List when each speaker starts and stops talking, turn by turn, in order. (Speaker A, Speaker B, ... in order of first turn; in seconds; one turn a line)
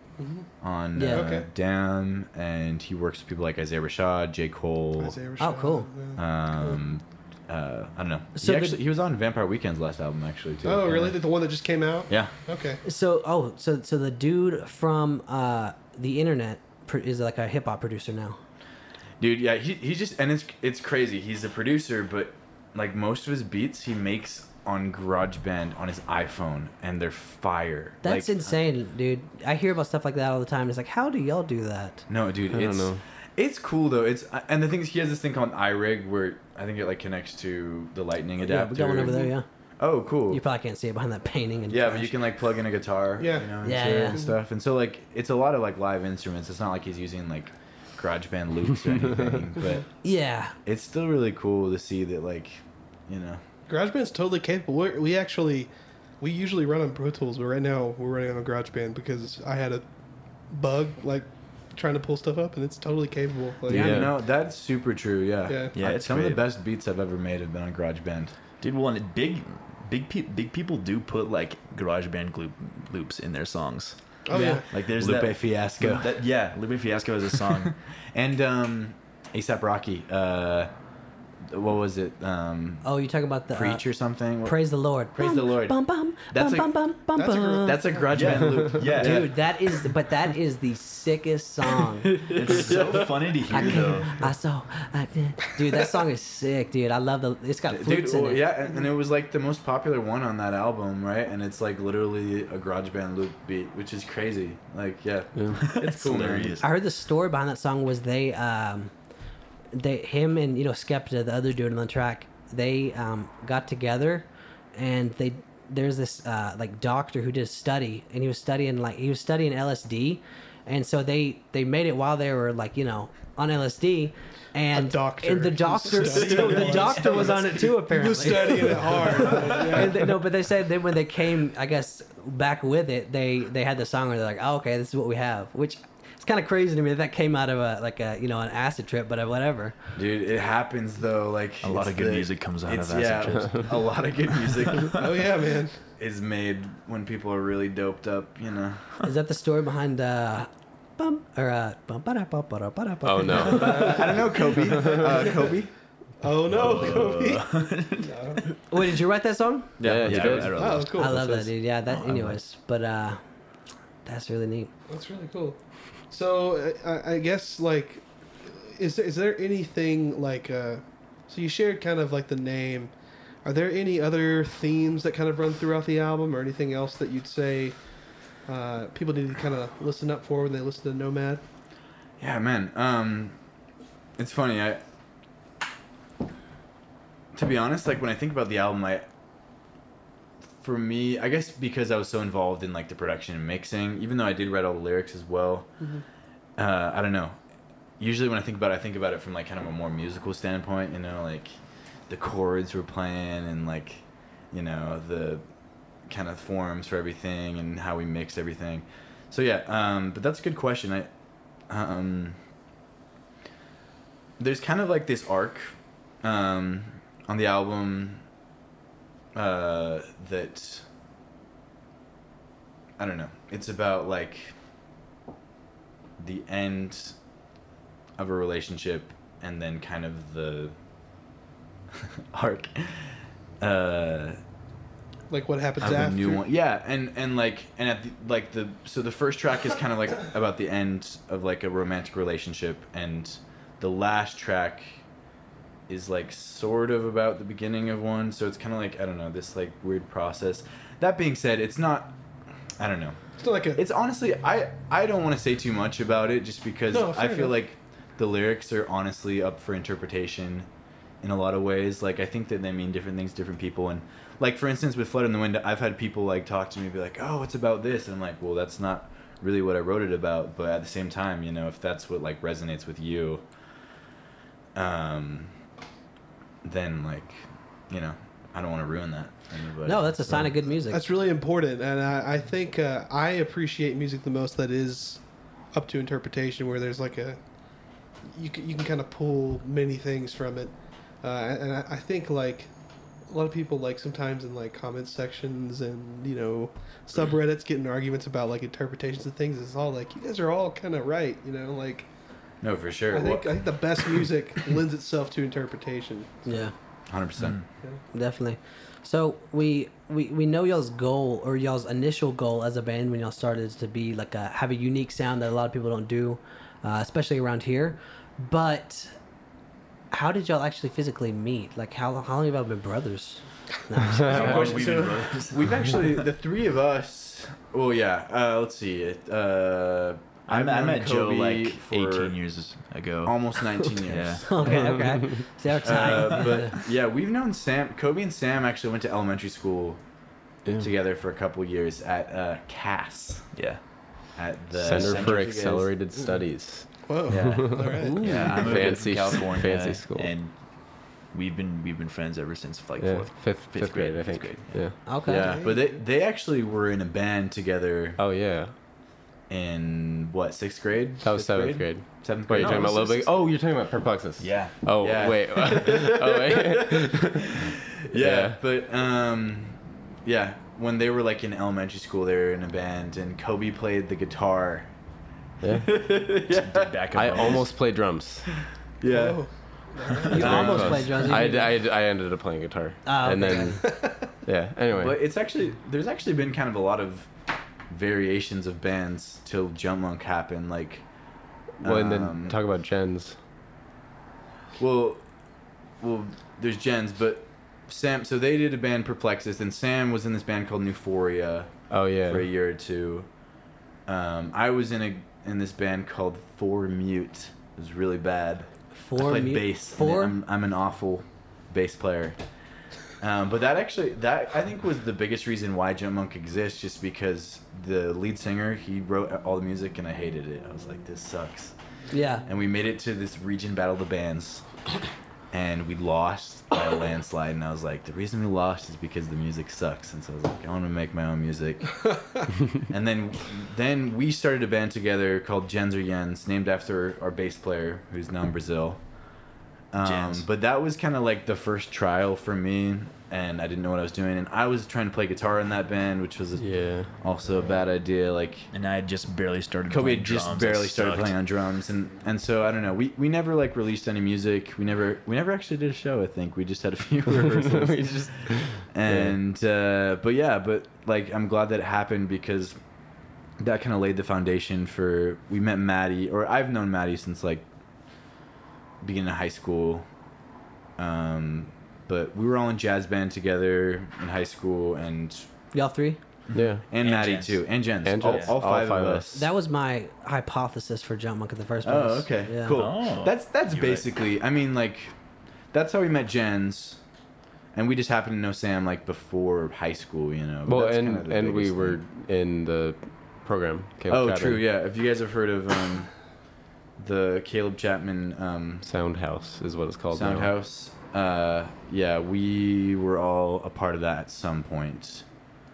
Speaker A: 0.2-0.5
Speaker B: 0.6-5.2
Speaker C: 0.9-1.2
Speaker A: 1.1-1.5
Speaker A: 5.0-6.8
Speaker C: 5.4-5.9
Speaker B: 6.2-11.2
Speaker C: 8.3-8.8
Speaker A: 10.6-12.8
Speaker C: 12.8-18.4
Speaker B: 19.2-28.5
Speaker C: 28.0-32.0
Speaker B: 32.1-40.4
Speaker D: 32.5-33.0
Speaker C: 38.4-39.4
Speaker C: 40.3-42.1
Speaker B: 41.7-49.9
Speaker A: 43.2-44.3
Speaker C: 43.6-44.2
Speaker C: 50.0-50.5
Speaker B: 50.6-53.4
Speaker A: 53.7-59.8
Speaker A: 60.5-64.0
Speaker D: 63.7-64.1
Speaker B: 63.7-68.3
Speaker A: 65.5-65.7
Speaker E: 65.7-66.4
Speaker E: 68.6-77.7
Speaker A: 74.2-74.7
Speaker C: 74.3-74.6
Speaker B: 74.7-76.1
Speaker B: 77.6-80.7
Speaker B: 81.5-82.9
Speaker C: 82.8-83.9
Speaker B: 83.5-86.8
Speaker C: 84.4-87.9
Speaker A: 87.2-88.3
Speaker B: 87.6-89.7
Speaker E: 88.1-89.4
Speaker C: 88.9-92.8
Speaker B: 92.1-93.9
Speaker E: 92.3-94.2
Speaker C: 93.5-98.4
Speaker B: 97.7-106.6
Speaker E: 105.6-106.7
Speaker C: 106.6-108.9
Speaker C: 109.7-139.8
Speaker A: 124.7-130.1
Speaker E: 125.9-127.4
Speaker B: 139.9-145.0
Speaker E: 141.6-143.8
Speaker E: 144.5-145.0
Speaker A: 144.9-145.8
Speaker B: 146.0-148.9
Speaker C: 149.0-154.0
Speaker D: 153.0-154.0
Speaker B: 153.5-155.7
Speaker A: 155.1-155.3
Speaker A: 156.2-158.4
Speaker E: 156.5-158.5
Speaker C: 158.7-159.7
Speaker B: 159.8-160.5
Speaker D: 159.8-161.5
Speaker E: 160.0-161.1
Speaker A: 160.6-161.1
Speaker C: 160.9-163.2
Speaker E: 161.9-162.3
Speaker C: 164.0-164.7
Speaker A: 164.9-165.6
Speaker A: 166.1-172.9
Speaker A: 173.4-177.8
Speaker A: 178.4-181.4
Speaker B: 182.2-183.3
Speaker B: 184.2-184.8
Speaker B: 187.3-189.0
Speaker B: 190.6-195.7
Speaker B: 196.6-197.3
Speaker B: 198.0-201.5
Speaker B: 202.1-205.4
Speaker B: 206.0-211.1
Speaker B: 211.7-212.4
Speaker B: 214.4-218.2
Speaker B: 219.3-220.8
Speaker B: 223.0-224.5
Speaker B: 226.2-227.2
Speaker B: 228.2-230.7
Speaker B: 231.9-234.4
Speaker A: 235.3-236.4
Speaker B: 235.8-245.0
Speaker B: 245.9-252.1
Speaker B: 252.8-253.2
Speaker A: 253.4-253.8
Speaker B: 253.7-260.7
Speaker A: 256.9-257.5
Speaker B: 261.2-273.4
Speaker B: 274.7-275.5
Speaker B: 276.6-280.1
Speaker C: 279.8-281.0
Speaker A: 280.9-287.4
Speaker A: 288.2-292.7
Speaker A: 293.2-302.1
Speaker B: 302.6-304.2
Speaker A: 303.1-306.7
Speaker C: 306.4-306.7
Speaker B: 307.1-307.6
Speaker E: 307.4-307.6
Speaker C: 308.1-319.1
Speaker C: 320.1-324.7
Speaker E: 324.2-326.2
Speaker B: 324.3-332.4
Speaker E: 330.5-334.5
Speaker B: 333.2-334.8
Speaker C: 334.4-336.8
Speaker D: 334.7-335.4
Speaker B: 335.8-340.0
Speaker B: 340.8-343.5
Speaker E: 343.5-343.8
Speaker B: 344.4-345.9
Speaker D: 344.8-347.9
Speaker E: 344.8-345.6
Speaker A: 346.9-348.2
Speaker B: 347.3-347.7
Speaker E: 347.4-347.6
Speaker C: 347.9-348.6
Speaker E: 348.2-354.8
Speaker D: 348.5-350.3
Speaker D: 353.0-355.1
Speaker C: 355.1-355.6
Speaker B: 355.2-358.2
Speaker A: 355.3-356.0
Speaker D: 358.2-358.7
Speaker B: 359.5-363.3
Speaker D: 361.2-367.6
Speaker E: 362.6-363.1
Speaker E: 364.4-364.8
Speaker B: 365.0-374.9
Speaker D: 368.1-368.6
Speaker D: 375.6-376.0
Speaker B: 375.7-377.5
Speaker E: 376.5-377.7
Speaker D: 377.1-378.5
Speaker B: 379.0-379.4
Speaker A: 379.1-381.1
Speaker C: 380.3-381.8
Speaker D: 380.3-385.2
Speaker B: 380.3-381.2
Speaker C: 383.0-383.8
Speaker A: 383.8-384.3
Speaker B: 384.9-387.3
Speaker B: 387.9-391.1
Speaker B: 391.8-392.6
Speaker D: 391.8-393.4
Speaker B: 394.8-395.2
Speaker B: 396.0-403.3
Speaker D: 401.9-402.5
Speaker B: 404.1-412.4
Speaker C: 408.9-410.4
Speaker B: 413.2-421.8
Speaker C: 422.1-422.4
Speaker B: 422.4-424.7
Speaker B: 425.5-439.1
Speaker B: 439.9-448.7
Speaker E: 440.0-440.4
Speaker D: 446.6-447.1
Speaker E: 448.7-451.4
Speaker B: 449.9-462.8
Speaker D: 457.7-459.3
Speaker B: 463.6-467.6
Speaker B: 469.0-470.1
Speaker B: 471.0-475.4
Speaker C: 475.7-476.2
Speaker E: 476.5-478.5
Speaker D: 476.5-476.9
Speaker B: 476.9-479.5
Speaker D: 478.0-479.3
Speaker C: 479.3-482.8
Speaker B: 481.8-485.1
Speaker E: 482.7-484.1
Speaker B: 485.7-487.0
Speaker B: 487.7-492.0
Speaker D: 490.6-494.6
Speaker B: 494.1-496.1
Speaker B: 497.0-498.9
Speaker D: 498.8-500.5
Speaker B: 500.1-505.2